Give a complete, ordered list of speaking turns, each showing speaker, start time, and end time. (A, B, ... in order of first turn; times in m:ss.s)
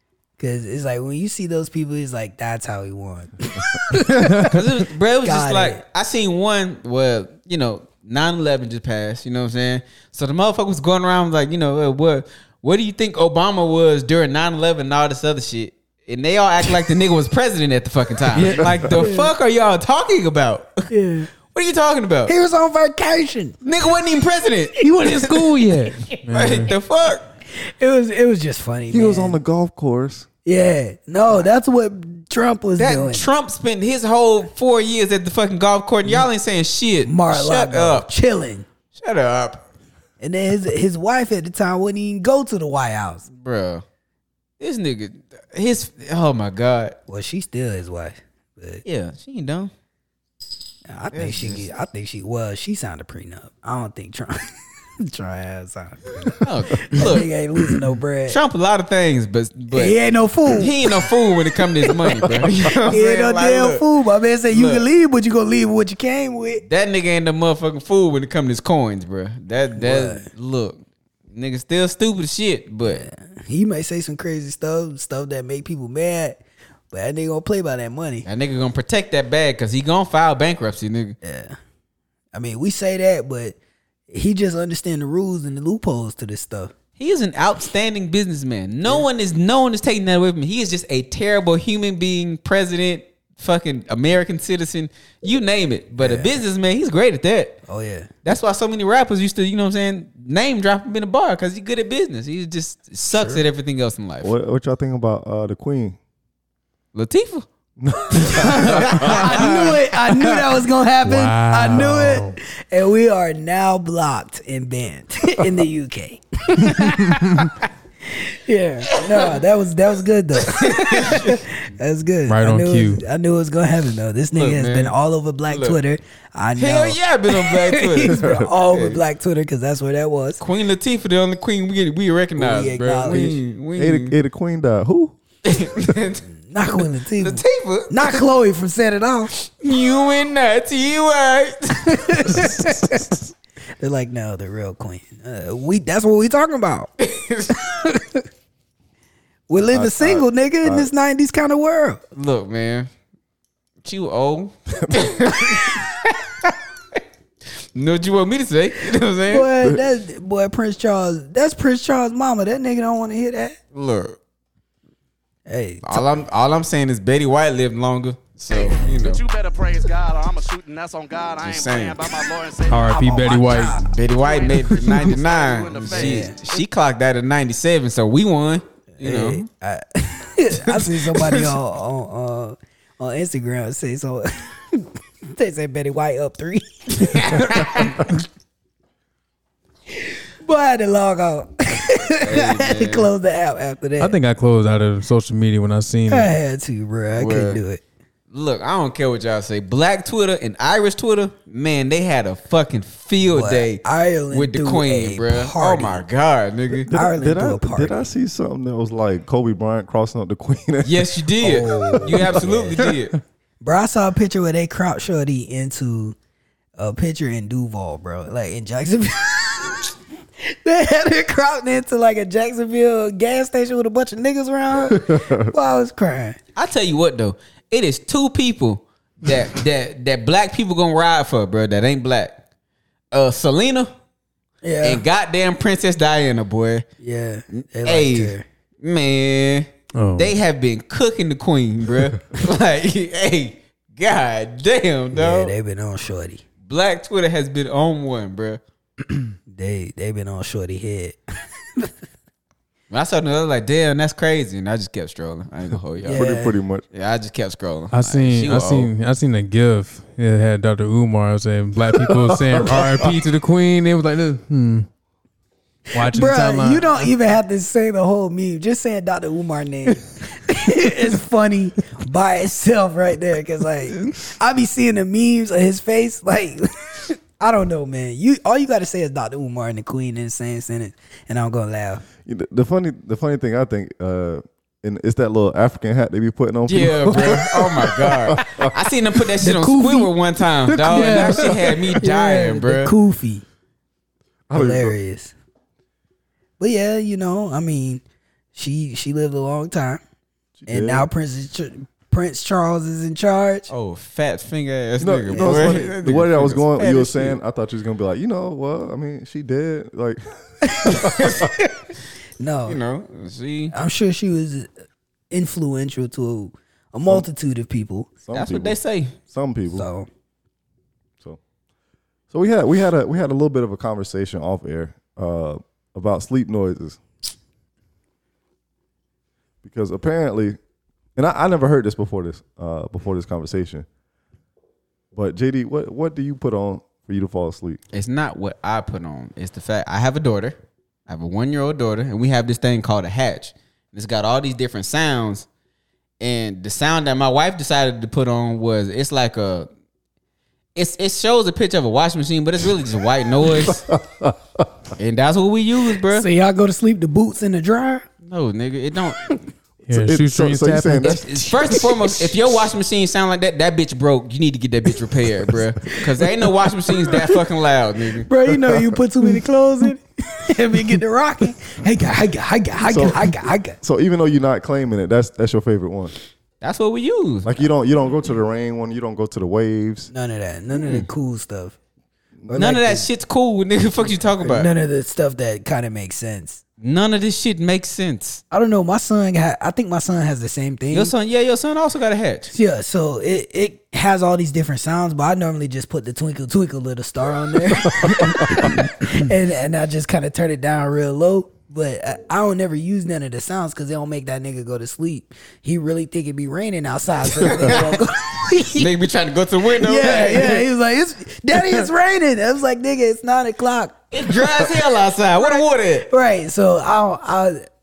0:00.4-0:04.6 A
0:04.5-0:20.9 B
0:05.2-0:05.8 A
0:18.3-0:18.9 C
0:19.0-0:19.3 A
0:20.9-0:21.3 A
0:21.4-0:22.3 B
0:22.3-0:23.6 A
0:23.6-0:25.2 B
0:24.8-0:26.7 C
0:24.9-0:25.7 A
0:26.3-0:27.3 B
0:27.5-0:29.4 A
0:28.9-0:30.3 D
0:30.4-0:33.3 A
0:32.8-0:38.1 B
0:37.0-0:38.6 A
0:38.9-0:39.6 B
0:40.2-0:43.2 A
0:43.3-0:43.8 B
0:44.6-0:47.0 B
0:47.1-0:48.8 A
0:48.8-0:49.7 B
0:50.9-0:58.4 A
0:51.1-0:51.6 B
0:56.4-0:57.3 B
0:58.3-1:00.0 B
0:59.7-1:01.0 A
1:00.5-1:03.8 B
1:02.9-1:06.6 A
1:04.5-1:04.9 B
1:06.6-1:10.8 B
1:09.8-1:10.2 A
1:11.3-1:13.0 B
1:12.8-1:16.4 A
1:16.9-1:18.2 A
1:18.2-1:21.2 B
1:21.2-1:21.6 A
1:22.3-1:23.6 A
1:24.1-1:26.7 A
1:27.0-1:37.6 B
1:36.0-1:36.4 A
1:37.7-1:38.1 A
1:38.2-1:44.3 B
1:43.1-1:43.4 A
1:44.2-1:46.0 D
1:46.9-1:47.4 B
1:47.8-1:49.3 D
1:48.2-1:49.8 B
1:48.2-1:57.5 A
1:51.0-1:52.4 C
1:57.1-1:57.5 C
1:58.0-2:10.4 A
2:00.4-2:01.4 B
2:02.3-2:03.0 C
2:04.3-2:05.0 B
2:05.5-2:05.8 B
2:06.6-2:09.0 B
2:08.1-2:08.5 D
2:10.4-2:14.2 B
2:12.4-2:13.4 A
2:13.7-2:15.2 D
2:15.4-2:16.2 B
2:16.3-2:19.3 A
2:17.2-2:18.2 B
2:19.6-2:22.6 B
2:21.9-2:23.1 A
2:23.8-2:26.9 A
2:27.0-2:27.6 B
2:29.5-2:32.0 A
2:29.7-2:30.9 D
2:32.1-2:32.9 B
2:33.8-2:36.5 B
2:34.8-2:35.1 D
2:37.7-2:39.5 B
2:39.3-2:43.6 A
2:43.7-2:44.2 B
2:45.4-2:46.0 A
2:45.8-2:49.2 B
2:48.5-2:53.4 E
2:51.4-2:52.1 B
2:52.7-2:53.8 C
2:52.8-2:53.9 A
2:53.9-2:59.4 B
2:54.1-2:56.3 E
2:55.9-2:56.4 A
2:59.0-3:08.2 A
3:00.5-3:01.5 B
3:07.0-3:07.9 B
3:10.4-3:14.2 A
3:12.1-3:13.1 B
3:14.0-3:16.3 C
3:16.1-3:17.8 A
3:17.2-3:17.6 B
3:18.3-3:26.9 B
3:23.2-3:26.0 A
3:26.9-3:32.4 D
3:26.9-3:28.1 A
3:30.8-3:33.2 B
3:31.4-3:32.8 A
3:33.6-3:36.2 A
3:36.8-3:46.4 A
3:44.9-3:45.4 D
3:46.6-3:52.4 B
3:53.1-3:53.9 B
3:54.6-3:55.0 A
3:54.8-3:56.8 B
3:57.0-3:58.4 A
3:57.8-4:05.5 B
3:59.9-4:00.4 C
4:05.1-4:06.4 A
4:06.6-4:08.6 B
4:09.5-4:11.2 A
4:12.9-4:16.2 B
4:16.0-4:16.8 D
4:16.0-4:16.6 A
4:16.9-4:18.9 B
4:17.9-4:24.9 C
4:22.0-4:23.2 D
4:25.9-4:42.0 A
4:25.9-4:27.1 C
4:42.2-4:48.7 D
4:46.7-4:52.9 B
4:49.4-4:50.1 A
4:50.7-4:53.4 A
4:54.5-4:55.0 D
4:54.5-4:55.3 A
4:56.6-4:58.0 A
4:58.5-5:00.0 A
5:00.6-5:01.1 D
5:00.7-5:03.7 A
5:03.7-5:07.4 B
5:05.0-5:11.5 D
5:05.3-5:05.9 A
5:10.6-5:11.7 A
5:12.4-5:12.8 A
5:12.6-5:13.7 B
5:13.7-5:14.7 A
5:15.3-5:18.1 A
5:18.2-5:19.8 D
5:18.3-5:19.1 B
5:19.7-5:20.1 A
5:22.3-5:27.0 D
5:29.6-5:30.6 D
5:31.2-5:33.8 D
5:35.1-5:37.8 D
5:37.9-5:45.5 B
5:46.2-5:49.7 B
5:50.7-5:53.8 B
5:53.5-5:54.7 D
5:55.0-5:56.3 B
5:56.1-5:58.0 A
5:58.2-5:59.4 B
5:59.9-6:01.4 C
5:59.9-6:01.6 D
6:01.0-6:08.3 B
6:07.0-6:07.3 A
6:08.2-6:13.8 A
6:08.5-6:09.0 D
6:12.8-6:16.1 D
6:16.6-6:17.7 B
6:17.4-6:20.1 D
6:20.1-6:21.8 A
6:20.8-6:21.1 B
6:22.5-6:23.1 A
6:22.5-6:24.7 B
6:24.4-6:26.6 A
6:26.8-6:28.4 B
6:28.5-6:31.1 A
6:30.9-6:32.5 B
6:32.5-6:48.9 A
6:37.9-6:38.8 D
6:47.4-6:47.9 B
6:48.7-6:50.6 B
6:49.7-6:54.1 A
6:54.1-6:56.1 B
6:55.4-6:57.6 A